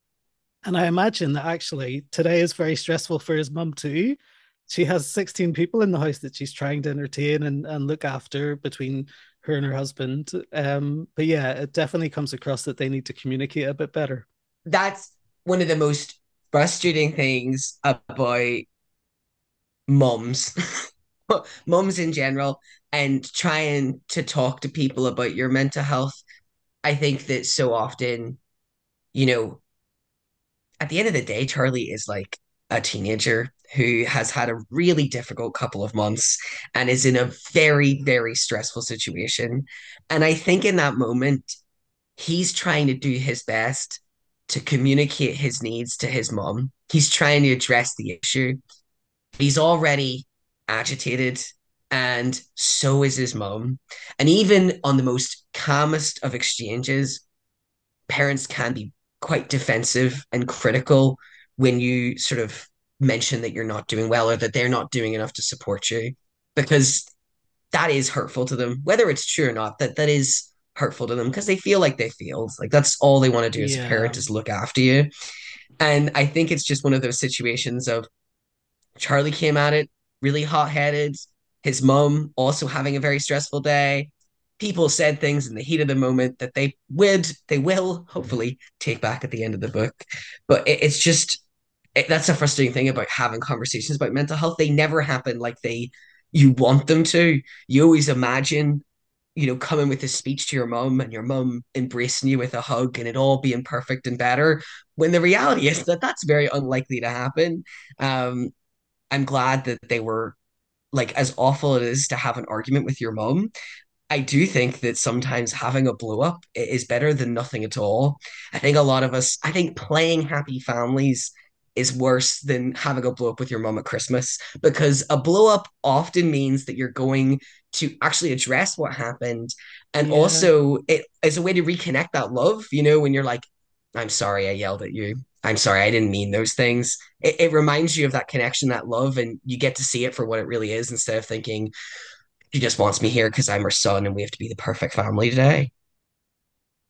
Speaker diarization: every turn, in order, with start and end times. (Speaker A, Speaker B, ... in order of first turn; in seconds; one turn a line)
Speaker A: 0.6-14.2
Speaker B: 14.7-18.6
Speaker B: 19.9-20.5
Speaker B: 21.3-26.2
Speaker B: 26.8-28.4
Speaker B: 29.1-29.6
Speaker B: 30.8-41.5
Speaker B: 42.2-48.6
Speaker B: 49.4-57.2
Speaker B: 58.1-67.1
Speaker B: 67.7-75.1
Speaker A: 73.5-74.2
Speaker B: 75.8-78.1
Speaker B: 79.0-91.4
Speaker B: 92.0-98.8
Speaker B: 99.3-108.5
Speaker B: 109.1-110.3
Speaker B: 110.9-113.5
Speaker B: 114.1-141.7
Speaker A: 130.0-130.5
Speaker B: 142.5-145.7